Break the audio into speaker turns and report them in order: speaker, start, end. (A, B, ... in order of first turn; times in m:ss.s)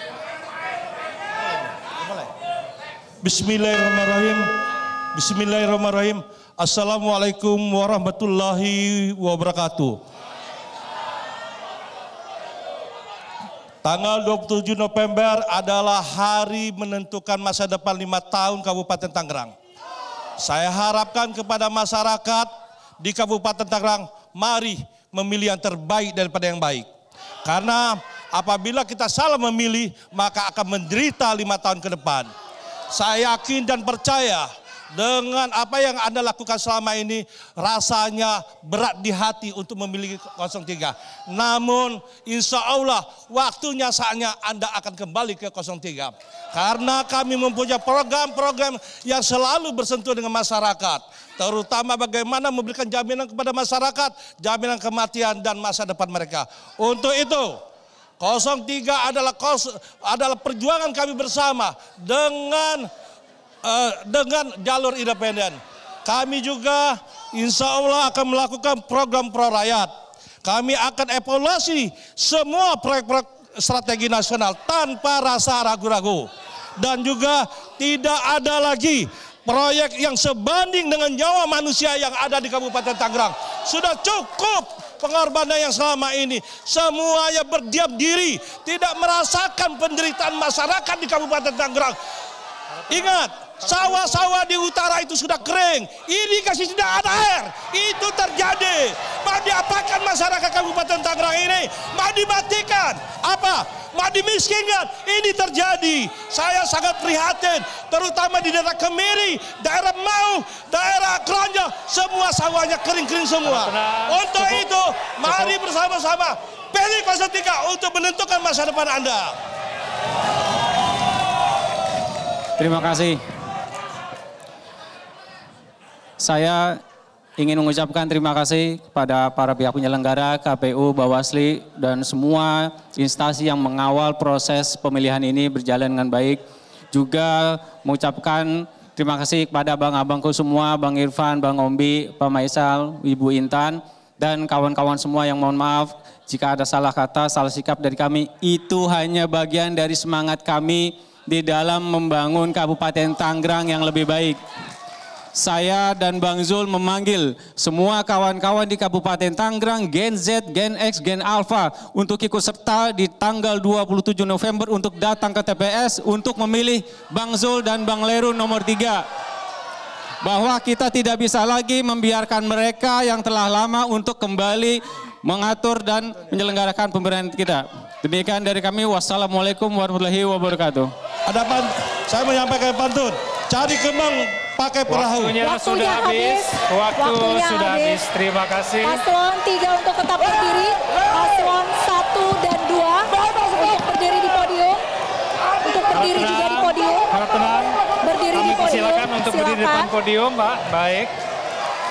0:03.2-0:04.4 A
0:05.1-0:10.0 A
0:13.8-0:19.6 A
0:20.4-0:22.5 A
0:23.0-0:26.9 A
0:27.4-0:32.3 A
0:32.9-0:57.6 A
0:58.2-1:02.9 A
1:03.6-1:09.9 A
1:10.4-1:32.0 A
1:32.9-1:59.3 A
1:53.4-1:54.6 B
2:02.6-2:03.2 C
2:06.2-2:06.8 C
2:07.4-2:16.4 C
2:16.9-2:34.4 C
2:35.3-2:49.0 C
2:50.2-3:00.9 C
3:01.3-3:05.4 A
3:04.9-3:09.0 B
3:05.4-3:08.0 D
3:08.8-3:14.8 D
3:15.6-3:17.1 D
3:15.9-3:17.8 B
3:18.0-3:19.9 D
3:18.3-3:21.1 B